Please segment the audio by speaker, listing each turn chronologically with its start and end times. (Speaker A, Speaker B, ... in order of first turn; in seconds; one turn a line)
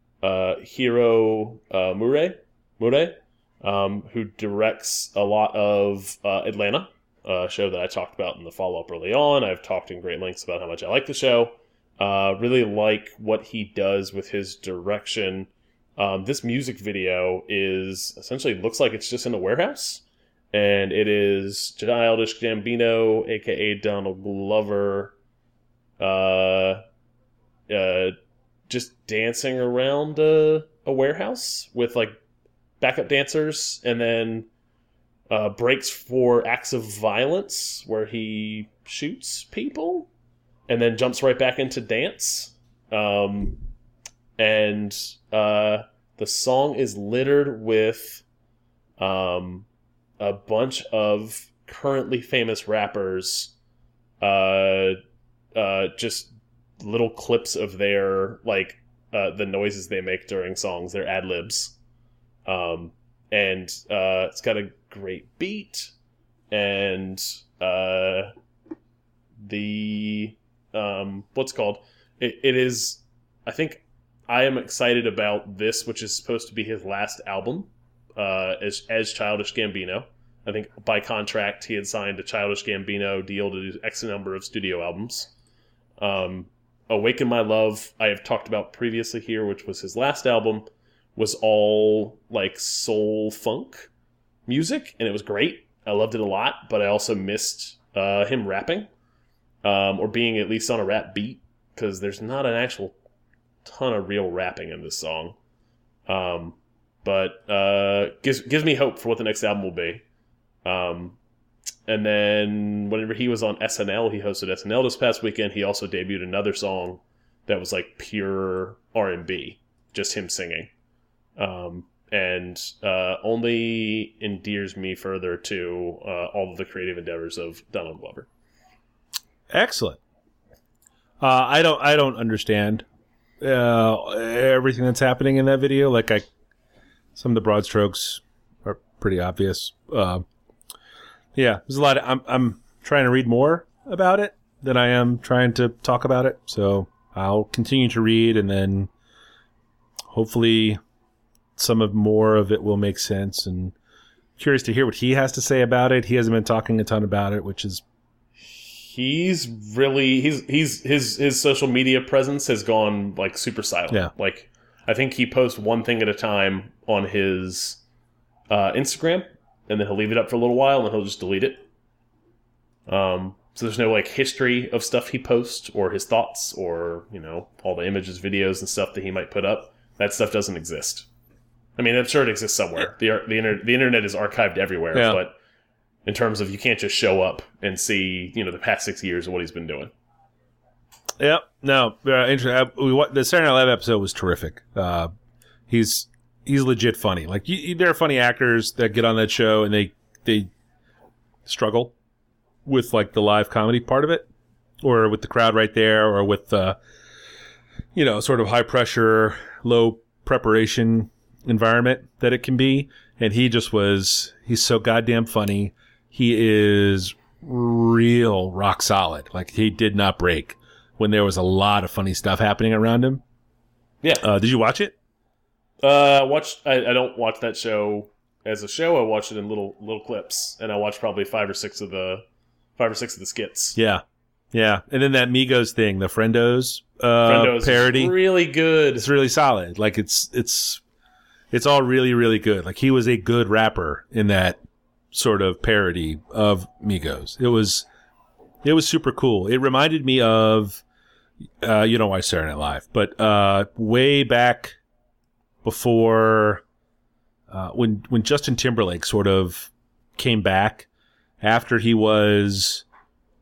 Speaker A: 0.2-25.1
Speaker A: 26.0-26.8
Speaker A: 27.7-28.1
Speaker A: 28.7-32.1
Speaker A: 32.8-34.5
Speaker A: 35.3-40.1
Speaker A: 40.7-43.6
Speaker A: 44.4-48.2
Speaker A: 49.0-49.6
Speaker A: 50.2-53.5
Speaker A: 54.2-55.0
Speaker A: 55.5-61.8
Speaker A: 62.5-65.9
Speaker A: 66.5-68.3
Speaker A: 69.4-85.3
Speaker A: 86.0-93.9
Speaker A: 94.5-98.9
Speaker A: 99.6-103.0
Speaker A: 103.6-105.3
Speaker A: 106.1-110.0
Speaker A: 110.6-111.2
Speaker A: 111.9-120.7
Speaker A: 121.4-128.3
Speaker B: 129.5-130.0
Speaker B: 131.2-132.8
Speaker B: 133.4-136.2
Speaker B: 137.2-140.2
Speaker B: 141.3-148.9
Speaker B: 150.1-150.8
Speaker B: 151.6-153.7
Speaker B: 154.4-157.8
Speaker A: 158.4-167.8
Speaker A: 168.5-171.6
Speaker A: 172.9-181.1
Speaker A: 181.8-185.3
Speaker B: 184.9-185.2
Speaker A: 186.1-189.9
Speaker B: 191.2-195.1
Speaker B: 195.7-200.5
Speaker B: 201.4-201.9
Speaker B: 202.6-204.3
Speaker B: 204.8-206.8
Speaker B: 207.9-223.2
Speaker B: 224.2-224.9
Speaker A: 225.8-232.2
Speaker A: 232.8-233.8
Speaker B: 233.8-238.2
Speaker A: 237.2-239.1
Speaker B: 238.9-240.8
Speaker B: 241.5-244.6
Speaker B: 245.1-247.9
Speaker B: 248.6-250.8
Speaker B: 251.6-254.8
Speaker B: 255.6-256.6
Speaker B: 257.5-260.9
Speaker B: 261.4-262.8